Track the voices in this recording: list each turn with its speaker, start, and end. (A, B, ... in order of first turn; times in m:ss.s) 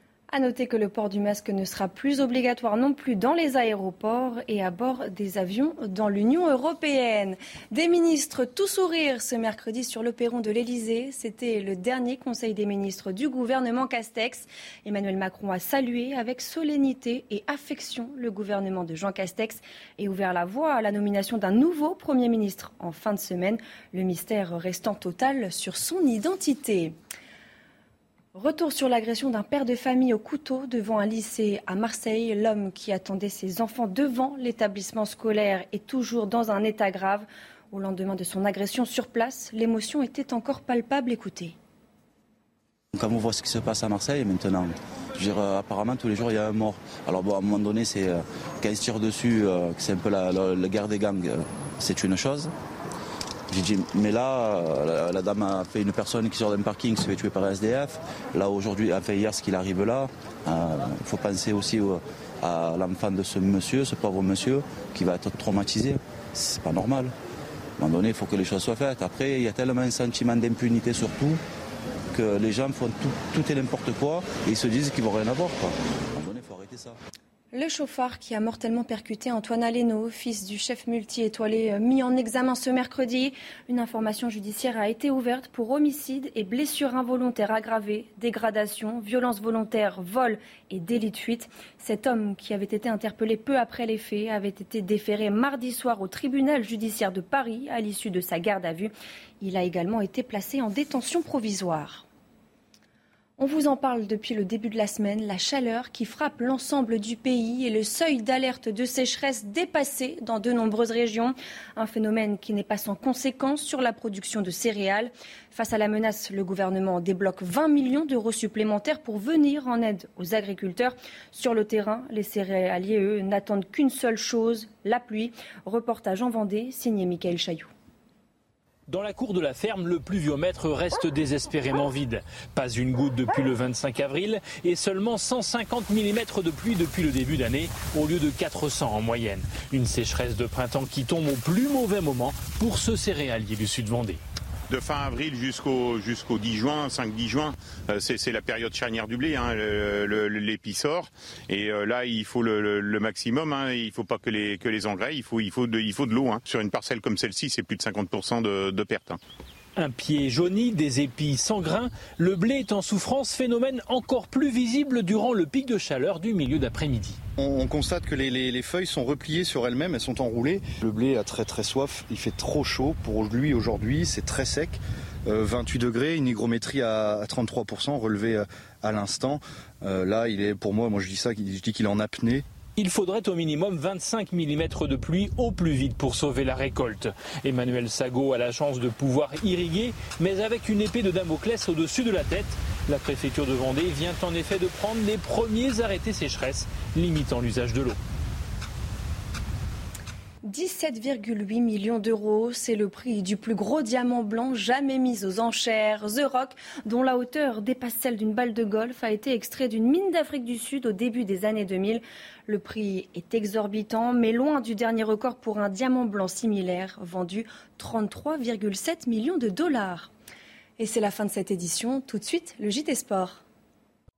0:00.3-0:26.9 A
0:28.3-0:41.5 A
0:42.9-0:52.5 B
0:53.5-1:07.1 B
1:07.8-1:11.4 B
1:12.1-1:17.0 B
1:17.5-1:42.0 A
1:43.4-2:07.7 A
2:08.9-2:24.2 C
2:24.7-2:39.2 D
2:39.8-2:47.2 C
2:47.4-3:02.4 E
3:02.8-3:18.0 C
3:20.4-3:40.1 A
3:40.8-3:43.4 A